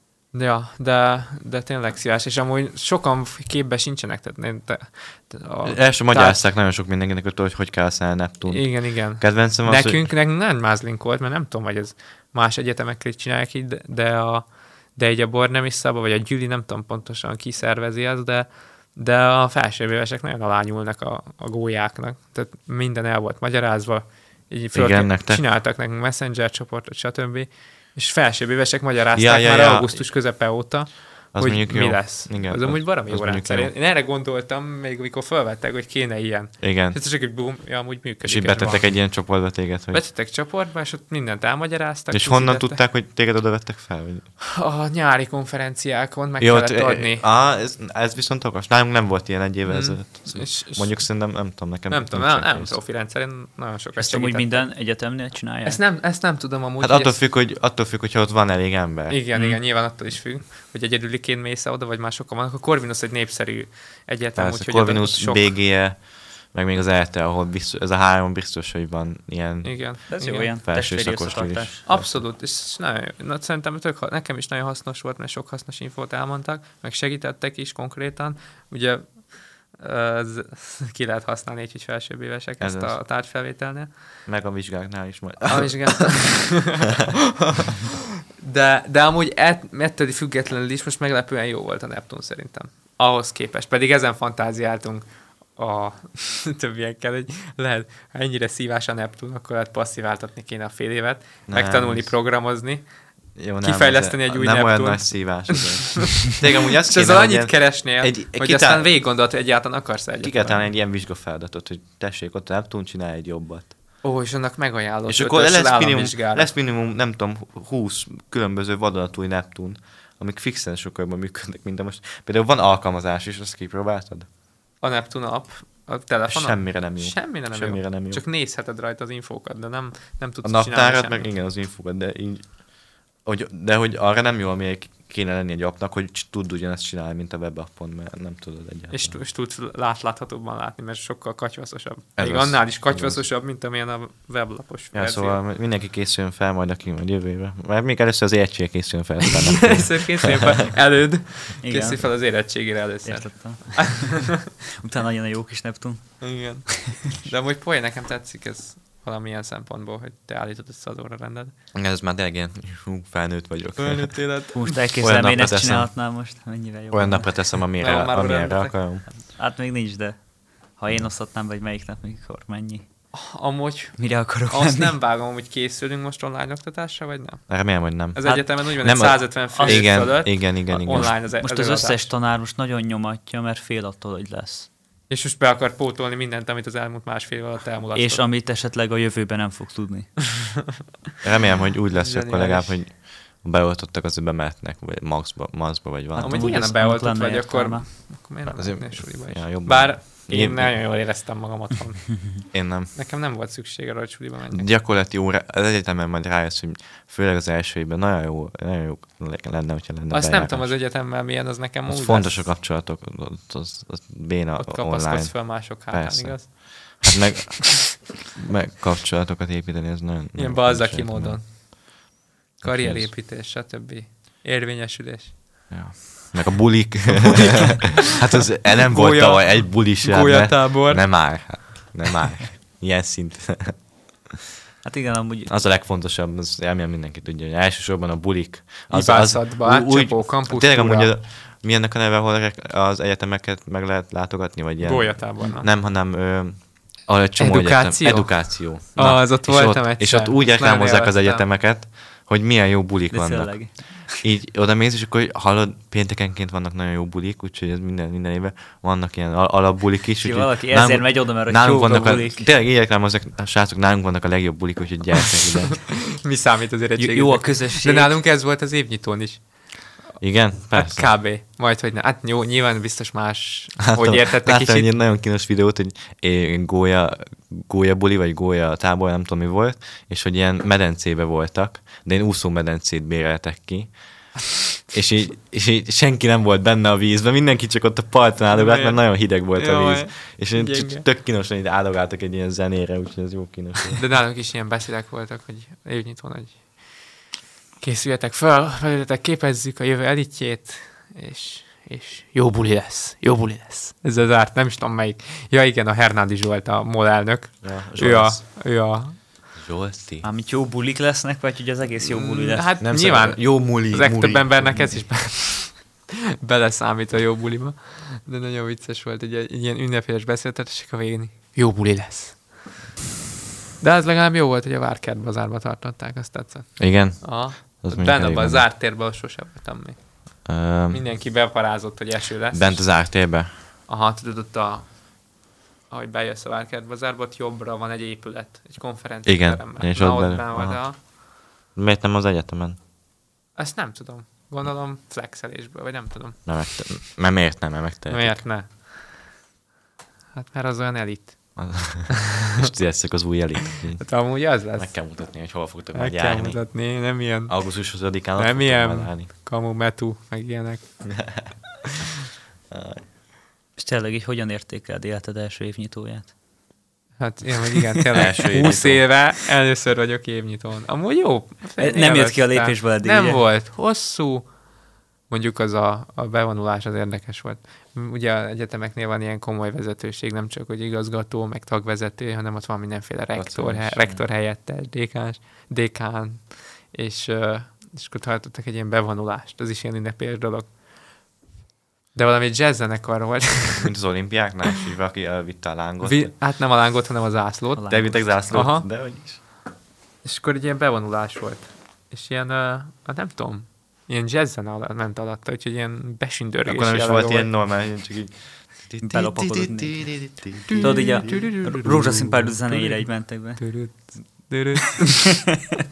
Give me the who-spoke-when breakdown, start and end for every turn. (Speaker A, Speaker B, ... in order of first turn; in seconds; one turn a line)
Speaker A: 0.3-6.4
Speaker B: 5.7-10.1
Speaker A: 8.5-42.8
Speaker B: 24.7-25.4
Speaker B: 29.1-30.1
Speaker B: 31.3-33.7
Speaker B: 36.6-37.0
Speaker B: 38.2-40.0
Speaker B: 42.1-44.3
Speaker A: 44.4-47.2
Speaker B: 46.4-52.8
Speaker A: 49.7-54.8
Speaker C: 54.0-55.8
Speaker A: 55.6-57.2
Speaker B: 56.8-59.2
Speaker A: 59.1-65.5
Speaker C: 59.4-59.6
Speaker B: 64.4-72.2
Speaker A: 69.6-70.5
Speaker C: 70.1-71.8
Speaker A: 71.8-84.0
Speaker B: 82.6-83.0
Speaker B: 84.3-86.2
Speaker A: 85.5-87.8
Speaker A: 88.4-102.9
Speaker B: 101.5-102.2
Speaker B: 103.4-108.9
Speaker A: 103.6-110.7
Speaker B: 110.2-114.0
Speaker A: 114.0-116.5
Speaker B: 115.1-124.3
Speaker A: 124.8-131.3
Speaker B: 126.3-128.2
Speaker B: 130.4-139.2
Speaker A: 138.9-145.4
Speaker B: 142.2-143.2
Speaker B: 144.9-150.4
Speaker A: 149.5-154.0
Speaker C: 151.6-152.4
Speaker C: 153.0-156.9
Speaker A: 156.2-161.5
Speaker B: 161.7-164.2
Speaker A: 163.8-164.7
Speaker C: 164.5-167.6
Speaker B: 165.0-165.9
Speaker B: 166.9-169.1
Speaker A: 167.8-168.8
Speaker C: 169.1-172.9
Speaker A: 173.1-182.1
Speaker C: 174.0-175.0
Speaker B: 177.5-181.2
Speaker C: 179.5-180.1
Speaker C: 180.9-184.7
Speaker A: 185.1-188.2
Speaker C: 187.9-190.3
Speaker B: 191.2-196.7
Speaker A: 191.9-192.8
Speaker C: 196.2-197.9
Speaker A: 196.2-204.7
Speaker B: 198.5-200.9
Speaker B: 202.5-202.9
Speaker B: 204.5-210.8
Speaker A: 210.1-212.4
Speaker B: 211.9-221.6
Speaker A: 214.6-217.0
Speaker A: 220.3-221.9
Speaker A: 222.6-225.3
Speaker B: 222.6-223.1
Speaker B: 225.7-233.8
Speaker A: 228.9-231.4
Speaker C: 234.8-235.5
Speaker B: 235.5-266.0
Speaker A: 238.9-241.1
Speaker A: 244.8-245.7
Speaker A: 247.4-251.5
Speaker C: 253.1-254.2
Speaker C: 260.2-262.5
Speaker A: 266.2-270.2
Speaker C: 267.0-268.2
Speaker B: 270.2-271.1
Speaker A: 270.7-274.9
Speaker B: 273.9-294.0
Speaker A: 288.5-291.1
Speaker A: 294.0-297.2
Speaker A: 297.8-309.2
Speaker B: 307.6-308.4
Speaker B: 309.6-310.3
Speaker C: 310.2-312.7
Speaker A: 312.1-322.6
Speaker B: 312.8-315.0
Speaker A: 323.8-333.2
Speaker B: 326.8-328.7
Speaker B: 330.4-331.1
Speaker B: 332.5-333.5
Speaker A: 333.9-335.3
Speaker A: 335.9-341.0
Speaker B: 339.2-341.1
Speaker B: 341.8-342.8
Speaker A: 343.6-346.4
Speaker B: 346.5-348.4
Speaker A: 348.1-349.2
Speaker A: 350.3-351.9
Speaker B: 351.6-356.7
Speaker A: 354.0-355.0
Speaker A: 355.9-361.4
Speaker B: 357.5-359.3
Speaker B: 361.1-361.6
Speaker B: 362.7-363.1
Speaker C: 363.8-366.3
Speaker A: 367.2-374.5
Speaker B: 368.1-369.1
Speaker C: 371.8-373.4
Speaker A: 375.3-390.7
Speaker B: 383.4-384.3
Speaker A: 392.1-393.9
Speaker B: 393.8-396.4
Speaker A: 396.0-398.9
Speaker C: 397.8-398.6
Speaker B: 397.9-399.4
Speaker A: 400.2-407.5
Speaker B: 406.6-411.6
Speaker C: 409.0-414.1
Speaker A: 410.7-415.6